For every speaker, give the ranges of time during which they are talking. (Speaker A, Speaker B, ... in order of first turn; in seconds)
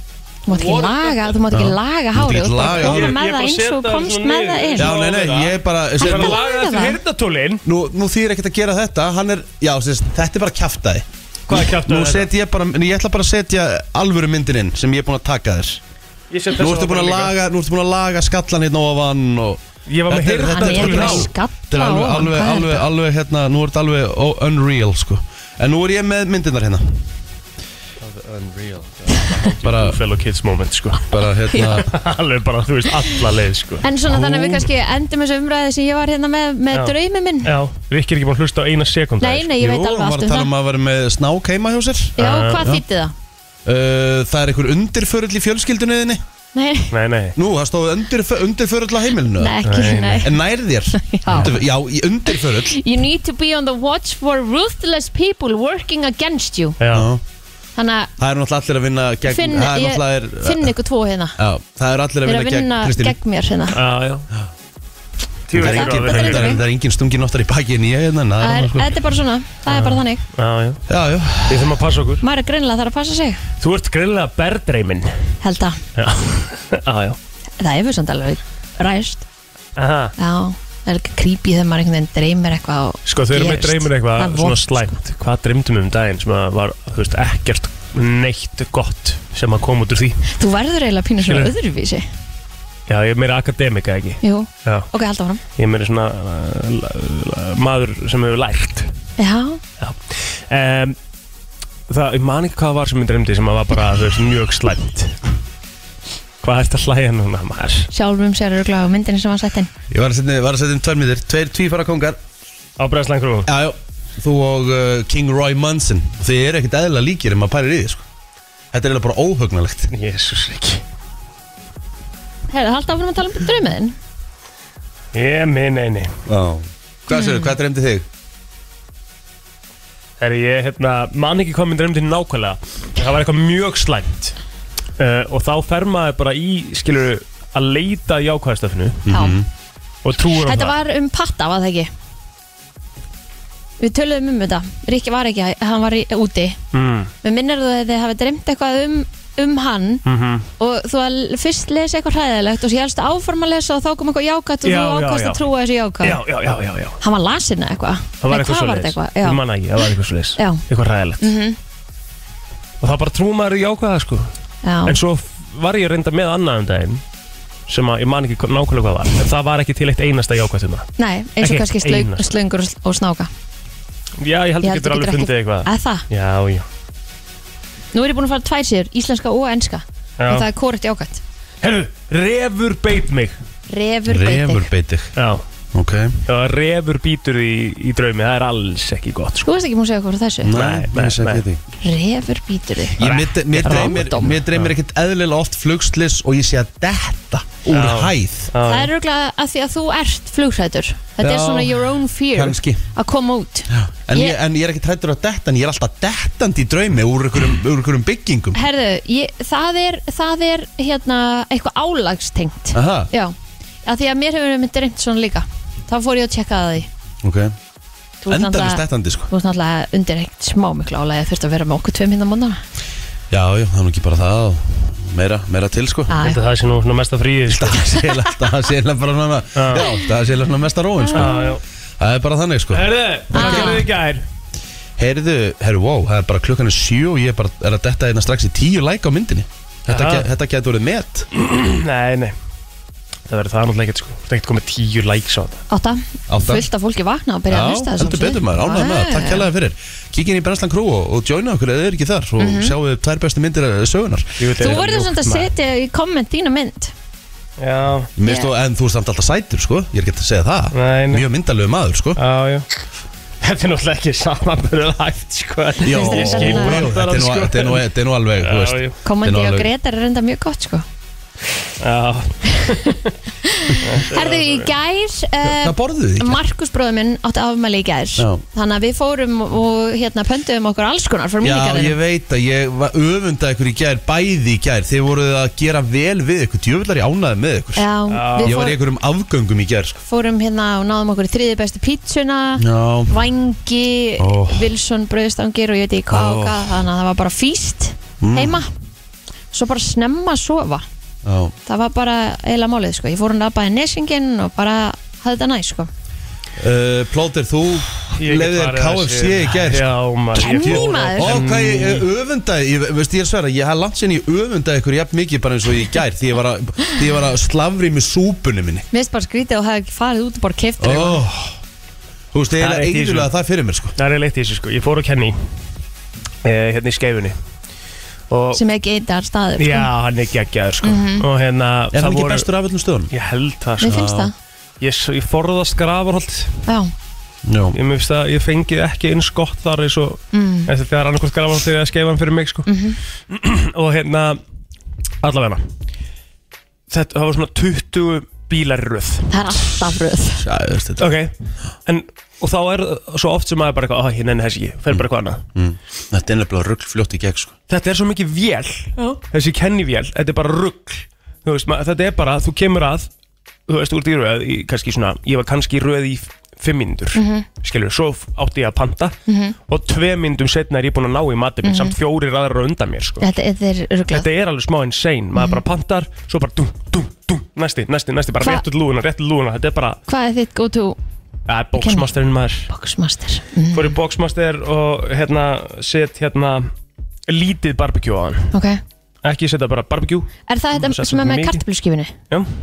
Speaker A: 0.5-4.9, 6.0-7.0, 20.5-22.9, 31.5-31.8, 33.8-37.5, 39.2-40.5, 42.2-43.1, 46.5-46.9, 49.4-50.3, 50.9-51.5, 52.3-56.8, 57.8-58.1, 59.3-61.4, 62.3-63.8, 65.6-66.6, 68.4-70.2, 72.2-73.4, 75.4-75.8, 77.6-79.3, 80.2-85.0, 90.3-92.0, 94.2-95.4, 99.2-99.6, 107.9-109.7, 122.5-124.0, 127.1-127.5, 139.1-139.4, 140.3-141.9, 143.8-146.6, 147.2-150.0, 150.6-156.2, 157.0-159.4, 160.4-160.6, 161.2-161.6, 164.6-165.0, 171.0-173.3, 174.6-176.0, 177.9-181.2, 183.7-184.7, 189.4-190.5, 191.8-194.3, 198.6-204.4, 208.5-213.3, 213.8-216.9, 218.2-222.6, 226.1-226.4, 231.0-231.6, 233.3-233.8, 245.7-249.5, 252.4-252.8, 254.6-256.9, 265.9-266.8, 269.1-270.9, 273.4-282.0, 287.8-288.8, 290.1-298.7, 299.5-300.9, 301.7-305.9, 310.4-311.4, 318.9-321.2, 328.6-329.9, 330.8-331.2, 333.8-334.3, 340.3-340.7, 342.7-343.0, 349.3-350.4, 367.1-367.4, 369.3-369.6, 371.6-371.9, 373.2-374.3, 375.4-375.6, 380.1-381.0, 381.8-382.1, 382.7-384.0, 388.5-388.8, 390.5-392.1
Speaker B: 0.5-1.4, 2.7-7.6, 11.5-12.3, 16.3-17.3, 19.9-21.3, 28.0-31.1, 31.6-33.9, 36.7-39.5, 42.2-42.7, 46.9-47.4, 49.6-50.3, 56.8-57.1, 63.7-64.3, 65.5-66.6, 69.7-70.8, 71.5-72.2, 73.6-75.3, 76.0-77.2, 79.8-80.1, 83.1-90.3, 91.2-91.5, 92.9-94.9, 95.6-98.9, 99.8-101.0, 101.9-105.2, 106.4-107.9, 112.8-113.5, 119.9-120.8, 125.1-126.1, 130.2-134.3, 135.0-139.0, 140.0-140.8, 146.7-147.1, 150.1-150.5, 154.6-155.4, 156.0-157.0, 158.2-161.2, 162.8-164.3, 164.9-167.0, 167.7-170.9, 171.4-172.3, 174.2-176.7, 180.2-180.5, 181.6-183.4, 185.2-185.4, 186.3-189.4, 190.5-191.4, 193.0-194.7, 197.7-198.9, 226.2-227.9, 229.6-229.9, 231.1-231.6, 232.7-234.2, 239.9-240.3, 241.4-242.3, 243.3-245.6, 254.4-255.5, 257.6-258.1, 260.7-261.3, 262.2-262.7, 263.4-267.8, 268.4-269.0, 271.8-273.1, 273.8-274.7, 288.1-288.6, 308.2-312.1, 322.6-323.3, 324.0-325.4, 326.4-327.4, 328.3-328.6, 329.6-332.5, 333.1-334.1, 334.8-336.6, 337.7-342.7, 343.3-344.4, 345.2-345.7, 346.9-349.3, 351.0-351.3, 351.9-355.4, 357.7-363.1, 363.7-369.2, 369.7-373.3, 374.1-380.0, 381.5-382.7, 383.7-386.7, 387.3-388.5, 389.2-391.6
Speaker C: 1.5-3.2, 4.8-6.4, 7.7-15.8, 16.6-27.1, 29.6-30.0, 31.1-31.9, 34.2-34.5, 39.6-42.8, 43.6-46.2, 47.4-49.6, 50.2-52.8, 56.9-57.2, 58.2-60.7, 61.4-63.2, 65.5-68.9, 70.9-71.8, 109.9-112.2, 113.5-118.0, 118.7-119.9, 126.3-128.1, 139.1-139.5, 184.1-185.2, 185.7-186.2, 190.4-191.6, 193.0-198.5, 201.2-202.8, 203.7-208.6, 212.7-213.1, 217.2-217.6, 218.3-219.3, 223.3-226.2, 227.5-231.4, 232.0-233.8, 235.0-241.3, 246.3-246.7, 247.5-254.4, 258.2-262.2, 265.8-269.7, 275.4-276.4, 278.2-278.4, 281.4-290.0, 292.6-293.1, 294.2-294.7, 296.1-296.8, 298.2-298.6, 301.2-301.5, 306.6-309.9, 310.5-318.9, 320.8-321.6, 322.3-323.9, 331.9-333.1, 333.8-334.3, 337.5-337.8, 350.4-351.1, 354.9-357.6